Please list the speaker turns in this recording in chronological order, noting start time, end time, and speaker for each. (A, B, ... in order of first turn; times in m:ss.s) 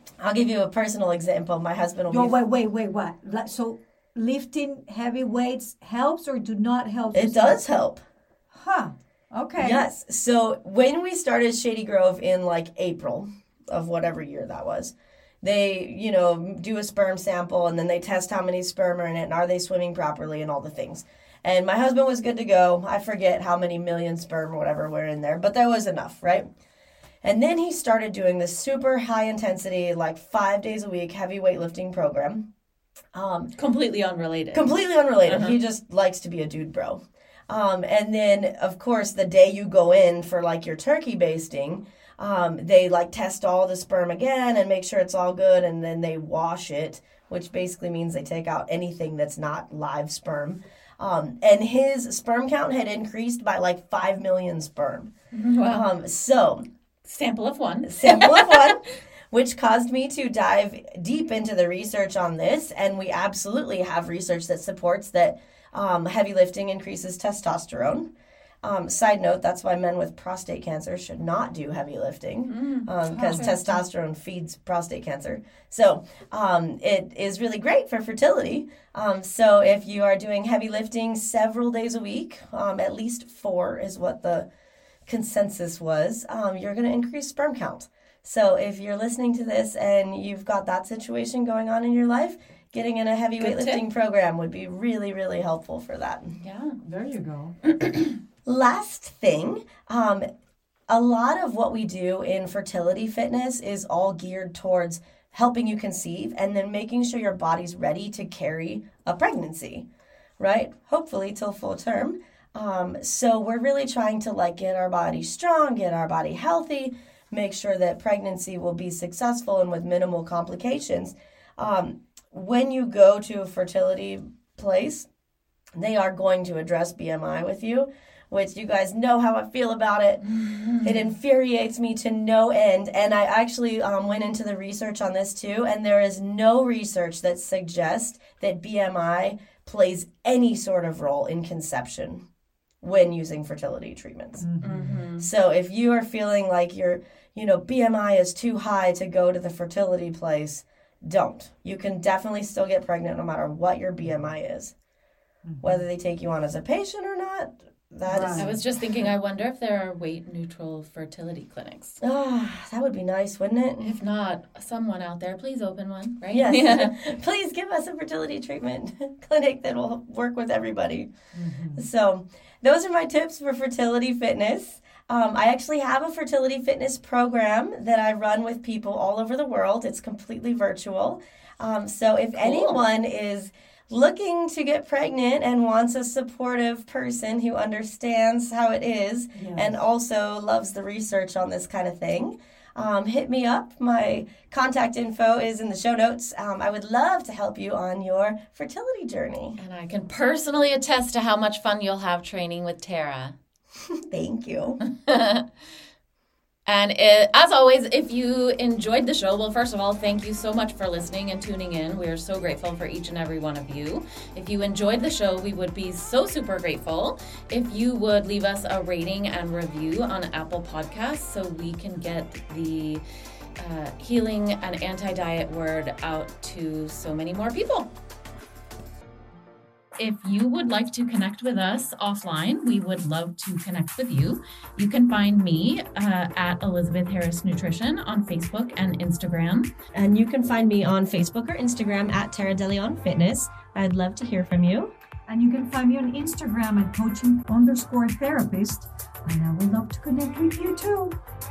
0:00.2-0:02.3 A
0:02.1-0:07.8 B
0:07.1-0:08.0 A
0:08.5-0:09.9 B
0:09.6-0:26.5 A
0:27.2-0:32.5 A
0:33.1-0:33.5 A
0:33.6-0:34.7 C
0:34.5-0:55.1 A
0:35.2-0:35.6 C
0:55.3-0:55.9 C
0:55.7-0:56.6 A
0:57.0-0:58.8 C
0:57.8-1:08.1 A
1:08.6-1:24.5 A
1:12.5-1:12.9 C
1:13.0-1:13.8 B
1:25.1-1:36.4 A
1:33.4-1:33.8 C
1:36.4-1:36.8 C
1:36.8-1:37.5 B
1:37.8-1:38.1 C
1:38.4-1:40.2 A
1:40.9-1:49.8 A
1:50.4-2:05.1 A
2:05.8-2:10.2 A
2:10.2-2:11.0 C
2:10.8-2:22.2 A
2:22.8-2:24.4 A
2:24.4-2:25.0 B
2:24.6-2:25.3 C
2:25.2-2:34.7 A
2:35.4-2:35.8 B
2:35.6-2:38.6 A
2:38.1-2:38.5 B
2:38.1-2:42.0 C
2:42.0-2:44.0 A
2:43.8-2:47.0 C
2:46.3-2:51.1 A
2:51.3-2:51.9 B
2:51.8-3:19.6 A
3:02.4-3:02.8 C
3:09.3-3:09.8 B
3:19.6-3:23.4 C
3:24.1-3:24.8 A
3:25.0-3:25.4 C
3:26.7-3:43.0 C
3:43.6-3:47.9 C
3:50.0-3:59.7 C
3:59.9-4:04.9 A
4:05.2-4:11.1 B